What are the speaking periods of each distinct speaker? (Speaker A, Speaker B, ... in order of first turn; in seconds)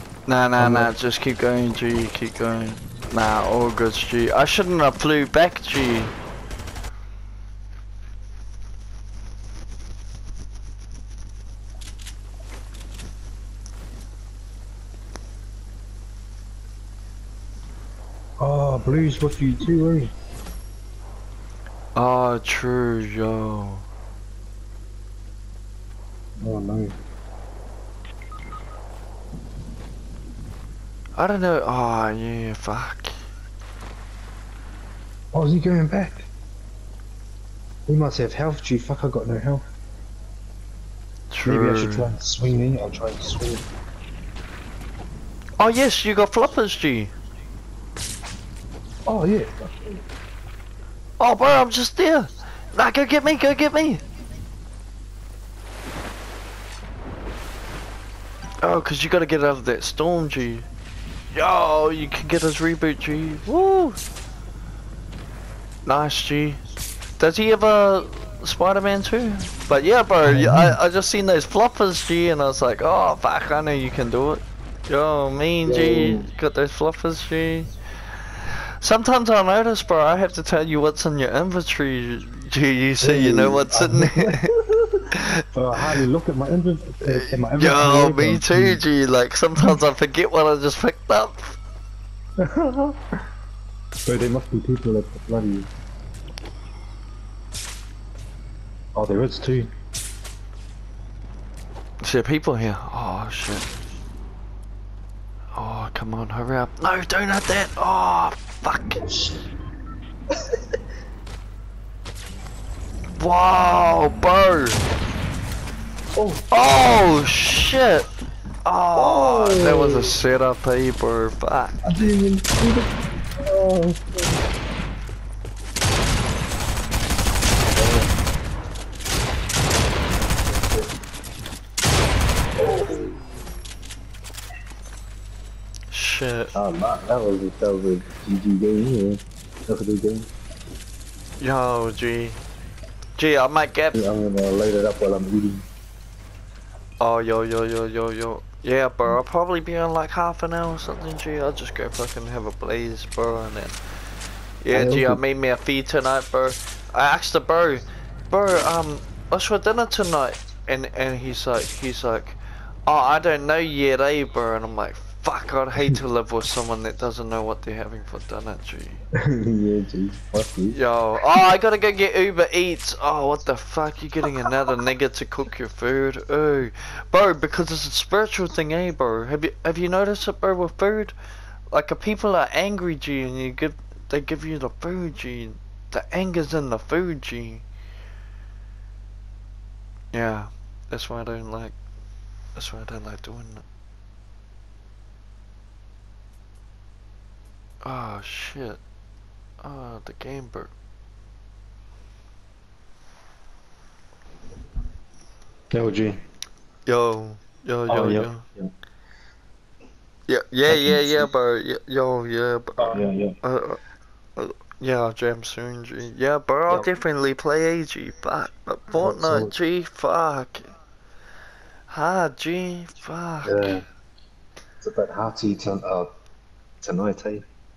Speaker A: 0.3-6.1, 21.9-23.9, 31.1-33.1, 41.3-42.1, 45.6-47.1, 51.2-54.0, 58.6-60.6, 61.3-64.0, 65.8-66.6, 67.2-77.7, 78.8-84.5, 87.0-91.6, 102.0-103.7, 105.5-109.0, 113.2-114.8, 116.5-118.1, 118.6-121.8, 135.9-136.5, 141.4-142.4, 143.2-144.0, 147.0-153.8, 154.6-169.0, 170.7-181.1, 181.7-187.6, 190.1-191.8, 192.5-193.6, 197.8-198.8, 199.6-200.7, 206.9-208.4, 210.3-213.8, 214.4-220.7, 221.9-223.6
Speaker B: 0.6-0.9, 18.4-20.1, 26.4-27.0, 35.3-36.3, 37.9-39.6, 41.4-43.6, 49.1-50.0, 70.2-70.8, 75.6-76.3, 83.0-88.8, 92.4-93.0, 94.0-95.7, 99.0-99.7, 109.0-109.4, 116.2-116.5, 118.9-120.1, 121.8-124.3, 127.7-128.1, 130.4-130.9, 132.6-133.2, 136.5-140.3, 143.9-145.6, 154.7-155.2, 169.2-170.8, 205.7-206.2, 207.9-208.7, 210.7-211.3, 212.8-213.4, 219.0-219.5, 223.4-223.8, 224.8-226.1, 226.8-227.4